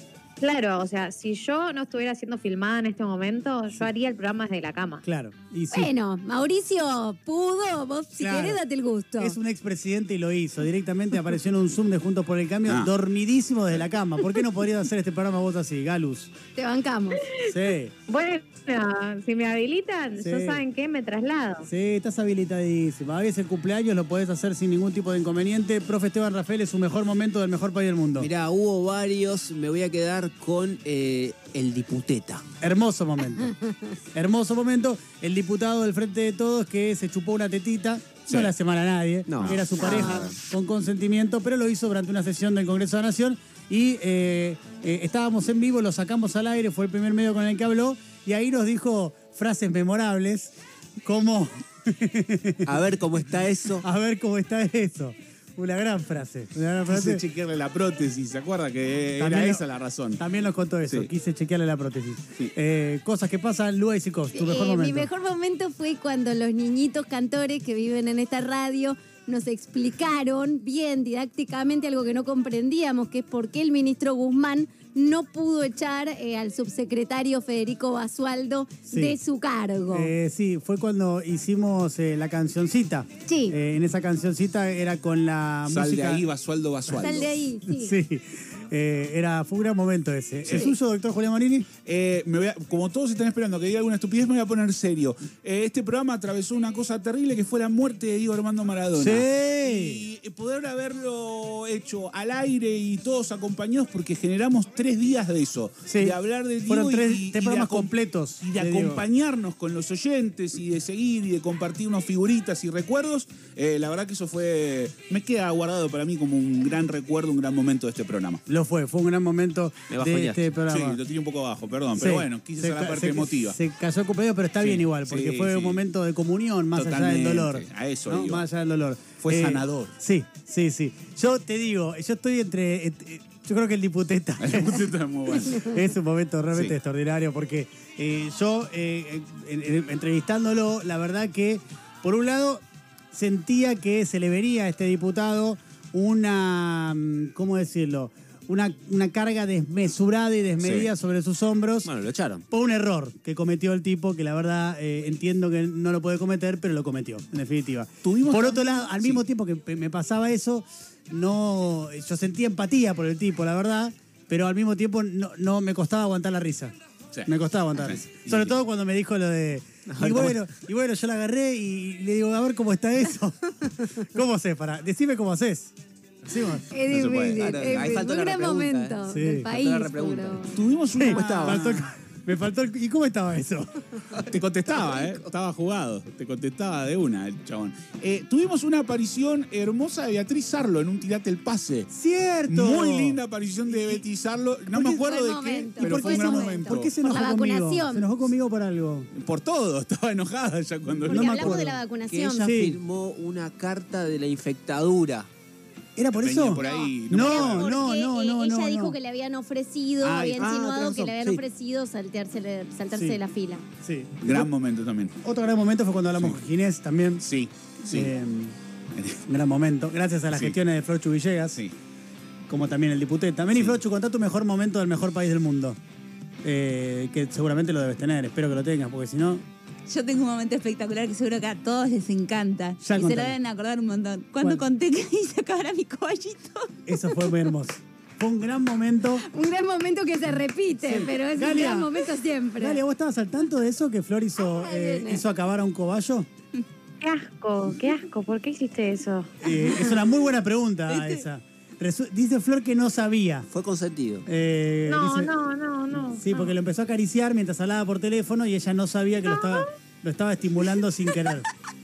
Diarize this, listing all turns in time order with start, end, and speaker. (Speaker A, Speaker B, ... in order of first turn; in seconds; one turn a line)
Speaker A: 0.4-5.0
Speaker B: 5.0-5.9
Speaker C: 5.7-9.3
Speaker B: 8.2-8.6
Speaker B: 9.2-16.3
Speaker C: 16.6-17.2
Speaker B: 17.4-17.9
Speaker A: 18.1-21.7
Speaker B: 20.2-20.6
Speaker B: 21.7-28.3
Speaker D: 28.2-32.4
Speaker B: 32.6-33.5
Speaker B: 34.1-50.5
Speaker D: 39.3-40.3
Speaker B: 51.0-52.7
Speaker D: 52.6-53.8
Speaker B: 53.8-57.2
Speaker E: 56.9-60.2
Speaker B: 59.2-59.6
Speaker B: 60.2-65.1
Speaker C: 64.3-80.1
Speaker B: 78.9-79.2
Speaker B: 79.9-86.2
Speaker C: 83.2-83.5
Speaker E: 85.7-87.4
Speaker C: 86.9-87.9
Speaker B: 87.7-91.7
Speaker E: 91.8-118.4
Speaker B: 99.0-100.0
Speaker B: 105.9-109.0
Speaker B: 118.5-121.0
Speaker D: 119.9-120.4
Speaker E: 120.7-123.5
Speaker B: 122.0-151.9
Speaker E: 124.6-125.8
Speaker E: 126.8-128.4
Speaker E: 129.2-129.9
Speaker E: 134.4-135.7
Speaker E: 150.6-150.9
Speaker D: 151.8-152.4
Speaker B: 152.5-166.7
Speaker E: 158.0-159.2
Speaker E: 167.1-168.5
Speaker B: 167.3-175.7
Speaker D: 169.9-170.4
Speaker B: 176.2-176.7
Speaker C: 176.7-180.5
Speaker E: 176.9-177.4
Speaker D: 177.0-180.4
Speaker B: 179.1-179.5
Speaker E: 180.5-181.8
Speaker B: 180.9-183.7
Speaker D: 181.0-181.7
Speaker E: 184.3-191.9
Speaker D: 184.7-185.1
Speaker B: 191.9-194.0
Speaker E: 192.5-196.9
Speaker B: 194.7-195.0
Speaker C: 194.9-198.1
Speaker B: 195.8-199.1
Speaker E: 199.1-201.7
Speaker B: 201.0-201.8
Speaker C: 201.1-202.5
Speaker D: 202.1-205.3
Speaker B: 202.4-202.8
Speaker B: 206.0-209.0
Speaker E: 206.1-207.9
Speaker C: 206.6-213.6
Speaker E: 210.1-210.5
Speaker B: 210.4-211.1
Speaker D: 210.4-211.4
Speaker B: 212.9-213.2
Speaker B: 213.8-214.5
Speaker E: 214.2-215.1
Speaker B: 215.2-217.2
Speaker E: 217.2-218.1
Speaker B: 217.9-218.5
Speaker E: 218.9-219.2
Speaker B: 219.3-221.6
Speaker B: 222.5-225.8
Speaker B: 226.4-229.4
Speaker F: 229.9-236.7
Speaker B: 232.8-233.4
Speaker B: 236.9-239.2
Speaker C: 239.2-242.8
Speaker B: 240.8-246.3
Speaker C: 244.4-245.2
Speaker A: 247.0-249.4
Speaker B: 249.4-253.5
Speaker D: 253.5-254.2
Speaker B: 254.3-255.3
Speaker A: 254.9-256.5
Speaker B: 256.1-261.5